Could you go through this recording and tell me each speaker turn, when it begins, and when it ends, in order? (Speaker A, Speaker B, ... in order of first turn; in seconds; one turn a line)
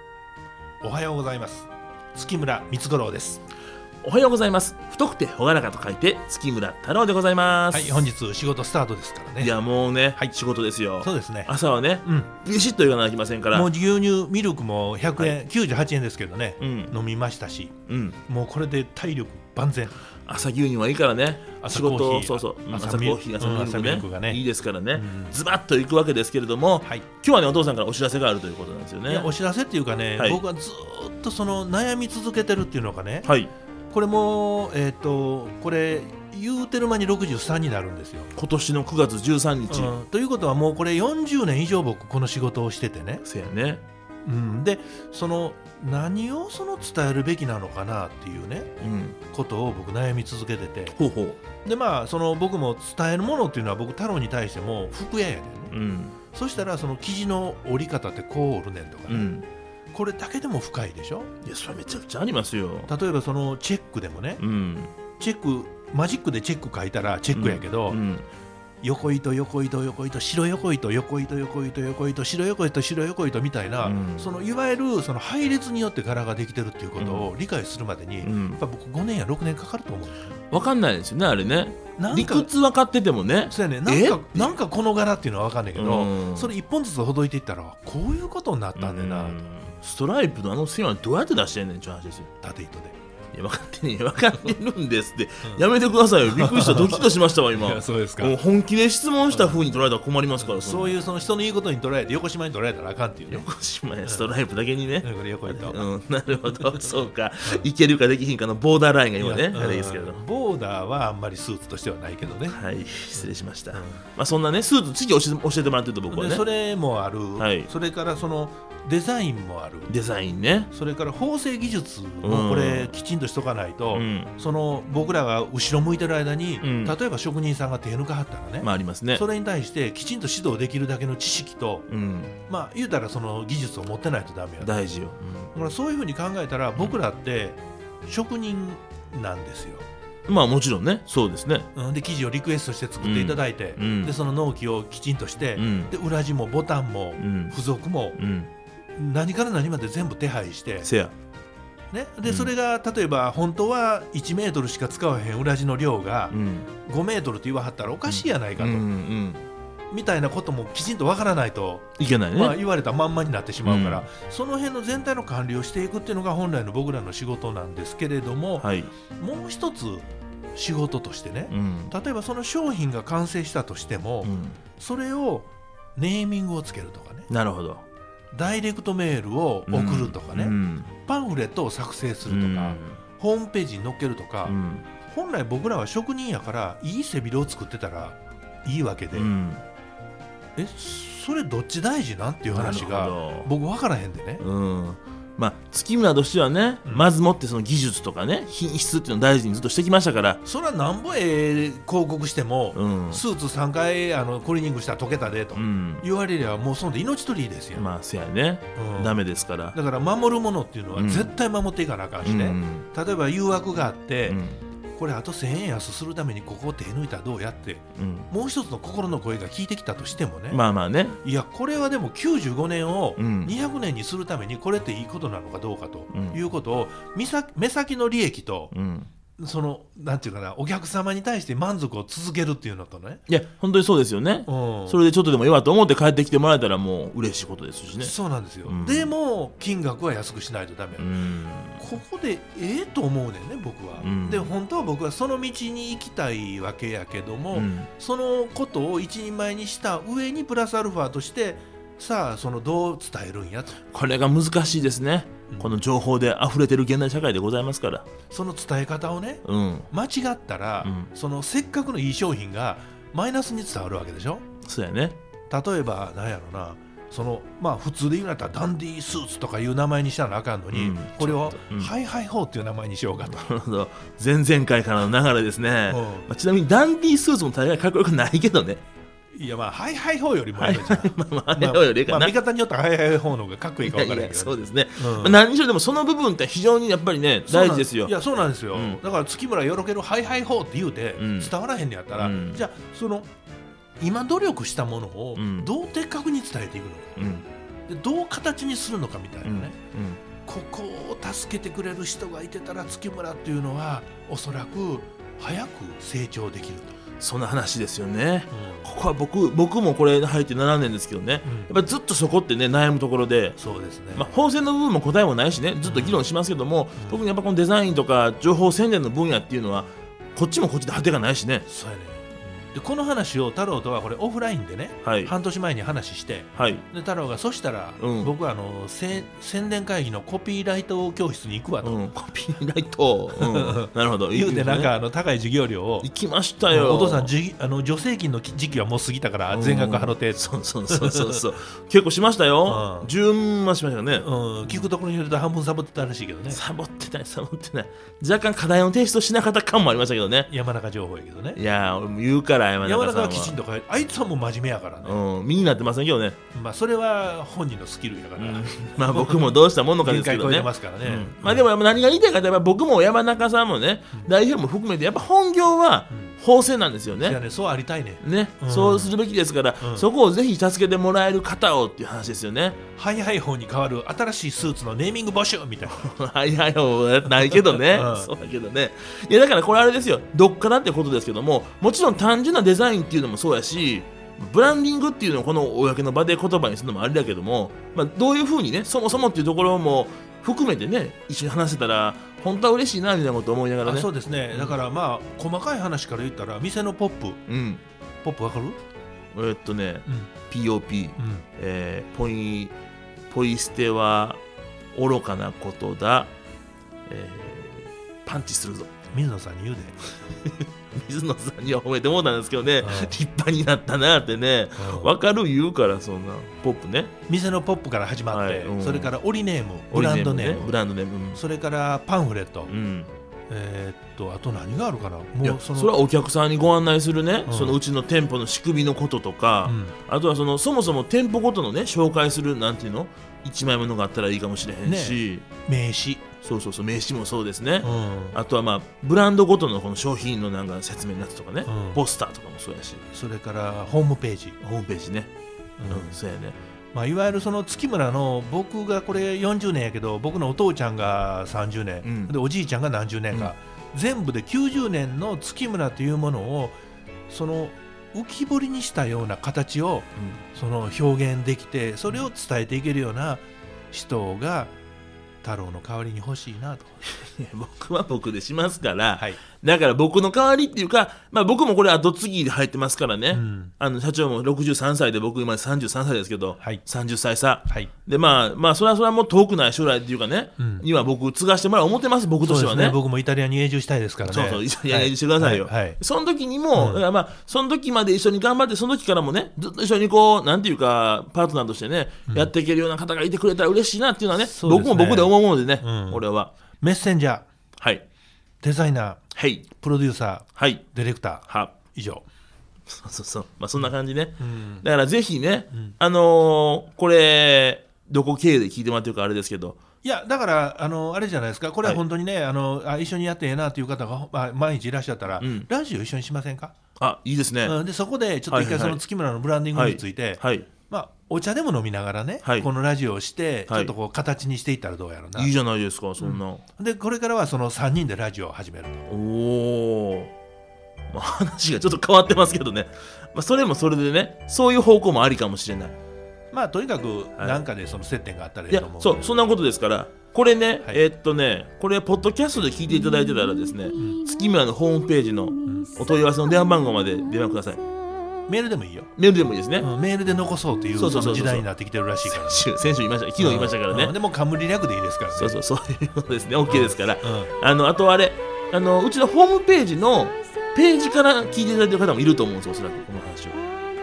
Speaker A: 0.8-3.4
Speaker B: 4.0-8.1
Speaker A: 7.7-9.5
Speaker B: 9.4-13.7
Speaker A: 11.0-11.5
Speaker A: 12.1-12.3
Speaker A: 13.5-17.7
Speaker B: 16.6-16.9
Speaker B: 17.9-18.2
Speaker A: 18.3-20.0
Speaker B: 20.2-29.3
Speaker A: 21.6-24.4
Speaker A: 24.9-25.4
Speaker A: 29.1-33.3
Speaker B: 33.2-33.5
Speaker A: 33.9-38.3
Speaker B: 38.4-40.0
Speaker A: 39.7-43.2
Speaker B: 43.2-43.8
Speaker A: 44.2-48.7
Speaker B: 48.8-49.2
Speaker A: 49.3-51.0
Speaker B: 51.0-51.4
Speaker A: 51.6-55.7
Speaker B: 55.7-56.2
Speaker A: 56.3-59.3
Speaker B: 59.1-59.5
Speaker A: 59.9-61.3
Speaker B: 61.4-62.9
Speaker A: 62.9-64.4
Speaker B: 64.4-64.9
Speaker A: 65.2-68.0
Speaker B: 67.3-68.3
Speaker A: 68.8-80.4
Speaker B: 73.8-74.3
Speaker B: 77.0-77.3
Speaker B: 78.2-78.6
Speaker B: 80.5-84.5
Speaker A: 82.0-82.5
Speaker A: 83.5-89.4
Speaker B: 85.8-86.5
Speaker B: 88.8-92.3
Speaker A: 92.4-93.0
Speaker B: 93.3-101.0
Speaker A: 96.3-98.4
Speaker A: 99.3-99.6
Speaker A: 100.4-103.5
Speaker B: 103.3-110.2
Speaker A: 104.0-104.3
Speaker A: 105.0-105.9
Speaker A: 106.5-107.7
Speaker A: 109.2-112.6
Speaker B: 112.4-116.5
Speaker A: 113.2-114.0
Speaker A: 116.1-119.9
Speaker B: 117.4-117.7
Speaker B: 119.9-120.7
Speaker A: 120.7-131.9
Speaker B: 122.2-123.0
Speaker B: 123.9-124.3
Speaker B: 126.6-127.0
Speaker B: 128.6-129.2
Speaker B: 131.9-132.3
Speaker A: 132.5-134.8
Speaker B: 134.6-135.5
Speaker A: 135.5-139.8
Speaker B: 140.3-141.7
Speaker A: 141.8-148.2
Speaker B: 143.0-144.1
Speaker B: 145.6-145.9
Speaker B: 147.2-147.6
Speaker B: 148.2-148.5
Speaker A: 149.0-150.9
Speaker B: 150.8-151.1
Speaker A: 151.9-158.8
Speaker B: 152.3-152.5
Speaker B: 156.3-156.7
Speaker B: 158.1-159.4
Speaker A: 159.9-177.3
Speaker B: 162.0-162.6
Speaker B: 163.6-164.1
Speaker B: 168.6-168.9
Speaker B: 171.5-171.9
Speaker B: 174.2-174.6
Speaker B: 177.3-177.8
Speaker A: 178.3-180.6
Speaker B: 179.7-180.9
Speaker A: 181.1-184.6
Speaker B: 182.3-183.0
Speaker B: 184.5-184.9
Speaker A: 185.1-189.3
Speaker B: 189.1-189.6
Speaker A: 190.6-194.4
Speaker B: 192.5-193.5
Speaker B: 194.4-200.4
Speaker A: 196.8-197.1
Speaker A: 200.4-207.9
Speaker B: 202.7-203.2
Speaker B: 205.6-206.0
Speaker B: 207.8-209.8
Speaker A: 208.8-209.2
Speaker A: 209.7-214.4
Speaker B: 210.9-211.3
Speaker B: 212.2-212.9
Speaker B: 214.3-214.6
Speaker A: 215.0-220.6
Speaker B: 218.0-218.3
Speaker B: 220.5-221.2
Speaker A: 221.2-228.7
Speaker B: 223.2-223.5
Speaker B: 226.1-226.4
Speaker B: 228.7-229.1
Speaker A: 229.4-233.2
Speaker B: 233.3-238.1
Speaker A: 234.5-235.0
Speaker A: 238.0-241.1
Speaker B: 238.7-239.1
Speaker B: 241.0-241.8
Speaker A: 241.8-253.8
Speaker B: 244.0-244.5
Speaker B: 247.5-247.9
Speaker B: 253.9-258.1
Speaker A: 255.5-255.8
Speaker A: 258.3-264.4
Speaker B: 259.4-259.9
Speaker B: 260.8-261.1
Speaker B: 264.6-265.2
Speaker A: 265.5-273.4
Speaker B: 270.7-271.9
Speaker B: 273.2-278.8
Speaker A: 275.9-276.3
Speaker A: 279.3-285.4
Speaker B: 280.6-282.4
Speaker B: 283.8-288.1
Speaker A: 287.5-293.3
Speaker B: 288.7-289.0
Speaker B: 291.2-291.5
Speaker B: 292.2-292.6
Speaker A: 294.0-297.4
Speaker B: 295.4-295.7
Speaker B: 297.2-297.4
Speaker A: 297.9-299.8
Speaker B: 299.4-300.2
Speaker A: 300.5-306.9
Speaker B: 307.2-313.6
Speaker A: 308.5-308.9
Speaker A: 311.4-311.7
Speaker A: 313.6-314.3
Speaker B: 314.1-321.7
Speaker A: 315.8-316.2
Speaker A: 321.7-332.0
Speaker B: 325.0-325.3
Speaker B: 326.6-326.9
Speaker B: 328.0-328.3
Speaker B: 331.8-334.9
Speaker A: 333.4-336.1
Speaker B: 336.0-337.3
Speaker A: 336.7-341.4
Speaker B: 339.5-344.9
Speaker A: 342.7-343.1
Speaker A: 344.2-346.6
Speaker B: 346.5-350.5
Speaker A: 350.5-351.6
Speaker B: 351.6-353.6
Speaker A: 352.8-355.2
Speaker B: 355.0-356.4
Speaker A: 356.5-361.7
Speaker B: 358.4-367.4
Speaker A: 367.2-369.1
Speaker B: 368.2-372.8
Speaker A: 369.8-370.1
Speaker A: 373.0-376.1
Speaker B: 375.9-394.8
Speaker A: 377.5-378.3
Speaker A: 393.8-397.4
Speaker B: 397.5-397.8
Speaker A: 398.2-398.8
Speaker B: 399.3-402.8
Speaker A: 401.2-401.5
Speaker B: 403.3-404.4
Speaker B: 404.9-406.3
Speaker B: 407.1-409.1
Speaker A: 409.1-410.0
Speaker B: 410.5-417.1
Speaker A: 412.8-413.2
Speaker A: 414.8-415.1
Speaker A: 417.3-420.7
Speaker B: 418.3-419.1
Speaker B: 419.9-421.4
Speaker A: 421.3-422.7
Speaker B: 422.7-423.1
Speaker A: 423.5-425.9
Speaker B: 425.4-435.4
Speaker A: 427.5-427.8
Speaker A: 429.7-429.9
Speaker A: 434.8-436.3
Speaker B: 436.4-443.1
Speaker A: 437.8-438.4
Speaker A: 441.7-442.0
Speaker A: 443.1-444.6
Speaker B: 444.6-445.3
Speaker A: 445.8-446.2
Speaker B: 445.9-446.6
Speaker A: 446.9-456.8
Speaker B: 452.0-452.3
Speaker A: 457.3-464.7
Speaker A: 465.4-466.9
Speaker B: 467.0-483.0
Speaker A: 473.3-473.7
Speaker A: 480.6-480.9
Speaker A: 482.4-486.0
Speaker B: 484.2-496.5
Speaker A: 486.8-487.0
Speaker A: 494.3-496.2
Speaker A: 496.8-497.5
Speaker B: 497.8-498.1
Speaker A: 498.6-499.2
Speaker B: 499.4-499.7
Speaker A: 499.8-502.2
Speaker B: 500.6-500.8
Speaker B: 501.5-501.8
Speaker B: 502.9-509.8
Speaker A: 503.8-504.9
Speaker A: 505.7-506.0
Speaker A: 510.0-516.7
Speaker B: 515.4-515.7
Speaker B: 517.0-517.8
Speaker A: 517.6-525.5
Speaker B: 518.5-519.0
Speaker B: 519.8-520.7
Speaker B: 522.4-522.7
Speaker B: 525.4-526.6
Speaker A: 526.2-529.1
Speaker B: 529.1-530.3
Speaker B: 531.1-536.0
Speaker A: 536.5-539.2
Speaker B: 537.4-537.6
Speaker B: 538.7-547.8
Speaker A: 545.7-545.9
Speaker A: 548.5-549.1
Speaker B: 549.2-549.9
Speaker A: 549.8-552.7
Speaker B: 551.0-551.7
Speaker B: 552.2-554.1
Speaker A: 553.4-555.6
Speaker B: 555.4-563.6
Speaker A: 556.7-557.5